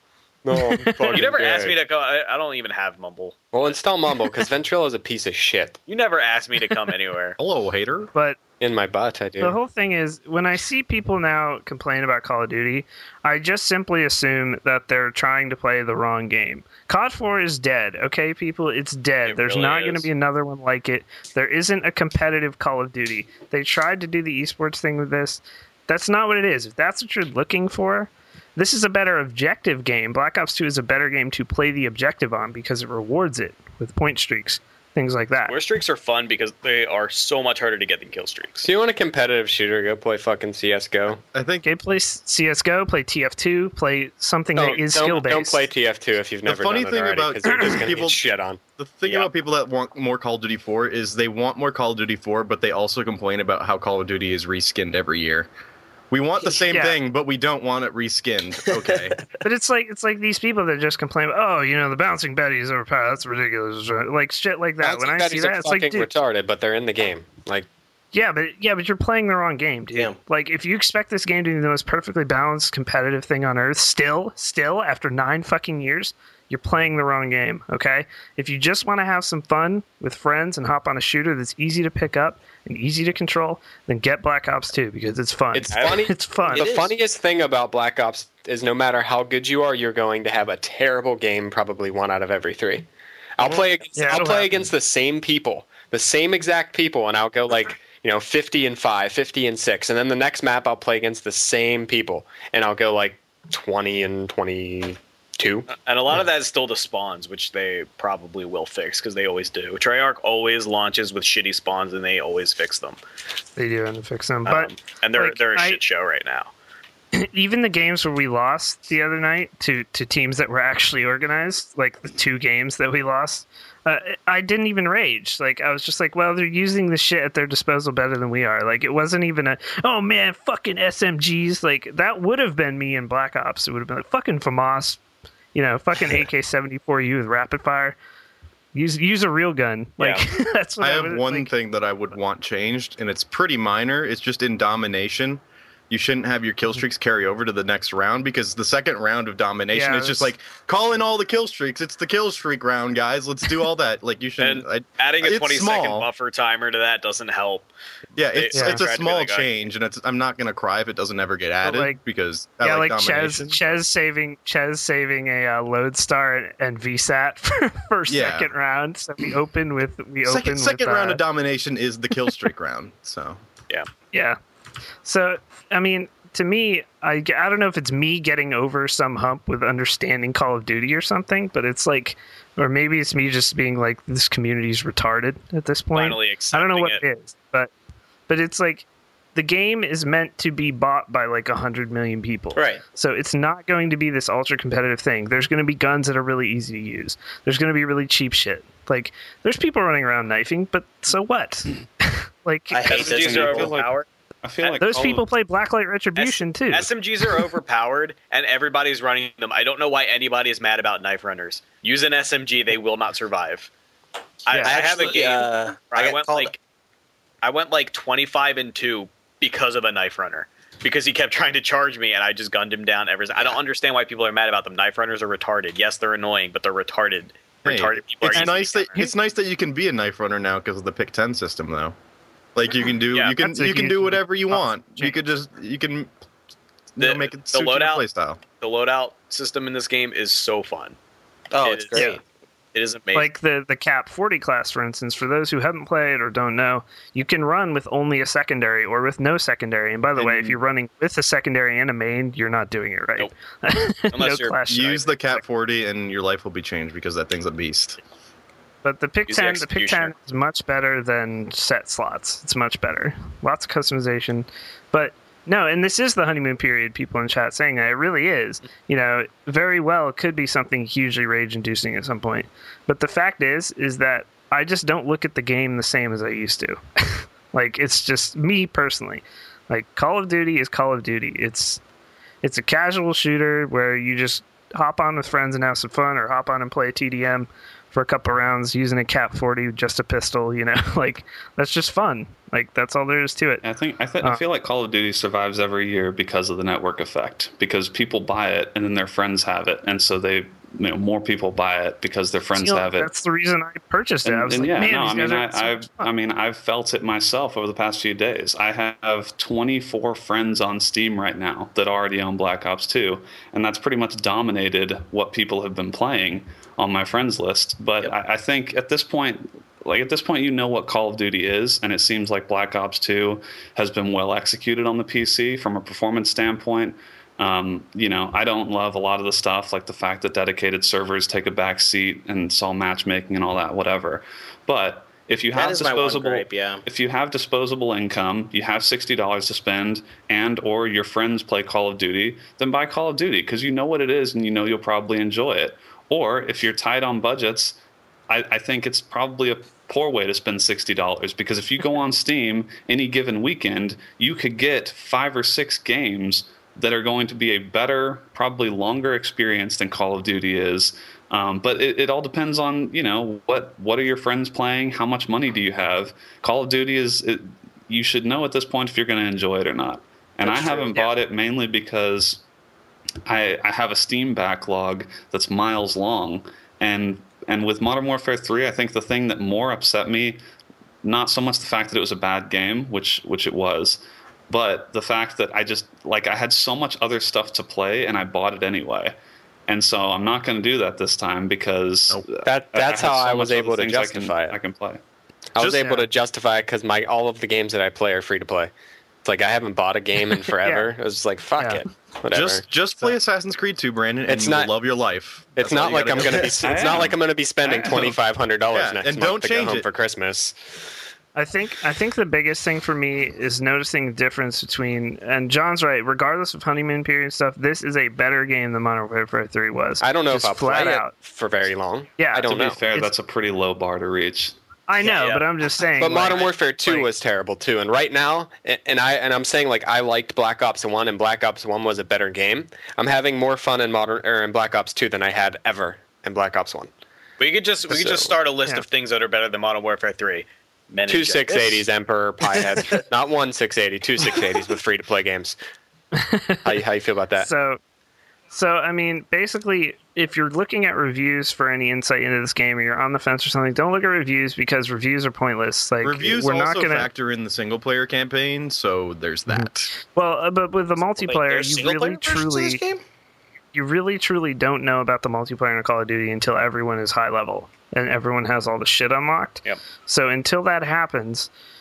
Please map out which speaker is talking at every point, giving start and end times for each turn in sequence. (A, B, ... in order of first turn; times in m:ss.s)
0:00.4-0:01.8 A
0:01.1-0:03.8 B
0:03.5-0:05.8 A
0:05.9-0:07.4 B
0:07.4-0:08.1 C
0:08.6-0:09.6 A
0:09.4-0:35.5 D
0:19.3-0:20.1 B
0:35.5-0:38.7 B
0:38.6-0:41.2 A
0:41.3-0:41.6 C
0:41.6-0:45.6 D
0:44.5-0:48.6 A
0:46.4-0:48.2 C
0:48.8-0:55.5 C
0:49.0-0:49.3 B
0:56.1-0:59.2 C
0:56.7-0:57.0 D
0:58.8-0:59.2 E
0:59.4-1:06.1 D
1:04.8-1:07.7 A
1:08.1-1:26.7 D
1:25.5-1:32.9 A
1:25.7-1:26.0 B
1:26.5-1:26.9 E
1:33.4-1:45.7 A
1:33.9-1:34.5 D
1:45.7-1:53.0 B
1:53.6-1:55.8 D
1:54.4-1:56.5 B
1:57.1-2:15.0 D
2:15.5-2:18.0 D
2:18.7-2:21.5 D
2:20.0-2:20.2 B
2:20.8-2:36.1 C
2:29.7-2:30.3 D
2:34.4-2:37.7 B
2:38.2-2:43.6 C
2:38.3-2:39.5 B
2:38.5-2:38.8 D
2:41.6-2:42.0 D
2:42.6-2:51.2 D
2:48.1-2:48.5 C
2:50.2-2:53.4 C
2:54.1-2:54.4 D
2:55.0-3:07.7 D
3:05.9-3:07.0 B
3:08.3-3:22.8 D
3:12.5-3:12.8 E
3:22.7-3:23.8 E
3:22.8-3:24.0 B
3:22.9-3:25.3 F
3:24.8-3:26.9 D
3:26.2-3:33.7 B
3:34.4-3:36.6 B
3:34.5-3:34.8 D
3:34.6-3:36.5 E
3:37.4-3:49.0 B
3:47.6-3:51.9 C
3:48.3-3:49.1 D
3:52.5-3:56.1 C
3:53.4-3:55.1 D
3:57.0-3:58.4 C
3:57.0-3:58.0 B
3:58.6-4:01.0 B
4:01.5-4:02.2 E
4:01.6-4:02.2 B
4:02.7-4:03.3 B
4:03.1-4:15.1 D
4:14.1-4:15.0 B
4:14.7-4:18.0 C
4:18.8-4:41.8 D
4:19.3-4:20.1 B
4:42.4-4:53.6 D
4:53.6-5:03.1 F
5:02.6-5:06.1 D
5:04.2-5:47.8 F
5:35.5-5:36.8 E
5:48.3-6:12.4 F
6:10.4-6:11.1 B
6:13.2-6:20.4 F
6:21.0-6:29.1 F
6:29.7-6:35.0 F
6:32.4-6:34.6 A
6:35.5-6:38.7 A
6:35.6-6:35.9 C
6:35.8-6:36.1 D
6:39.2-6:42.6 A
6:40.6-6:40.9 D
6:41.6-6:41.8 D
6:42.3-6:47.0 C
6:44.2-6:44.7 A
6:45.6-6:50.5 A
6:46.6-6:48.2 F
6:48.7-6:49.9 C
6:51.3-7:01.1 D
7:00.0-7:02.8 A
7:02.2-7:03.1 D
7:02.4-7:04.5 F
7:04.9-7:07.1 D
7:05.0-7:05.4 B
7:06.0-7:16.9 A
7:06.0-7:06.5 B
7:17.4-7:21.8 B
7:17.9-7:18.3 A
7:21.1-7:25.6 A
7:26.1-7:26.6 D
7:26.6-7:27.5 A
7:27.4-7:27.8 D
7:28.5-7:37.1 D
7:36.0-7:39.9 C
7:39.5-7:42.8 D
7:41.1-7:43.0 E
7:43.7-7:51.5 D